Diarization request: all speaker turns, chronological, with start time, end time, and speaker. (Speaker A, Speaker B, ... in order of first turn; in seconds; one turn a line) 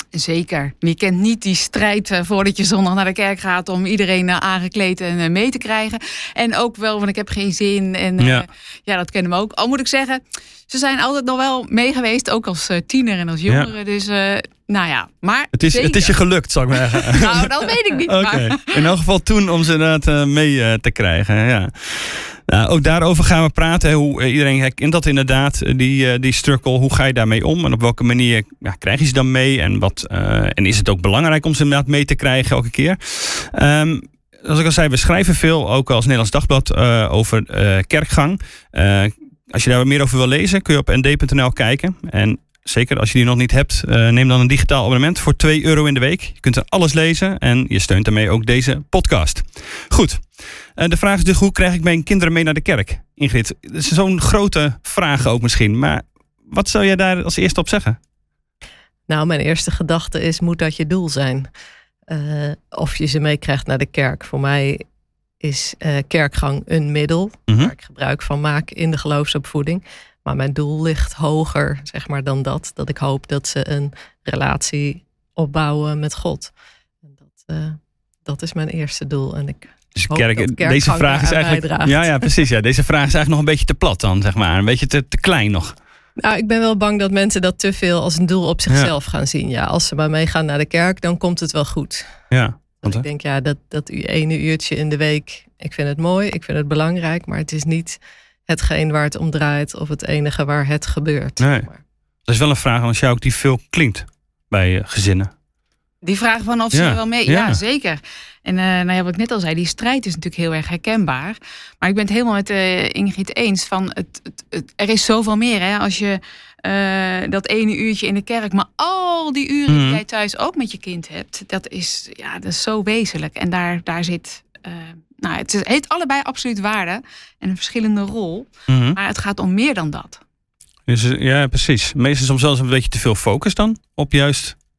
Speaker A: 0.1-16.2
Speaker B: 8.2-8.5
Speaker B: 15.5-58.0
Speaker A: 16.7-18.8
Speaker C: 59.1-61.5
Speaker C: 62.1-64.8
Speaker C: 65.4-76.5
Speaker C: 77.3-82.2
Speaker B: 80.0-85.8
Speaker C: 86.2-92.2
Speaker B: 92.3-93.1
Speaker C: 92.8-101.8
Speaker B: 101.4-101.7
Speaker B: 102.3-105.3
Speaker A: 106.0-130.2
Speaker B: 106.7-107.6
Speaker B: 119.7-120.0
Speaker B: 128.7-129.0
Speaker B: 130.9-134.6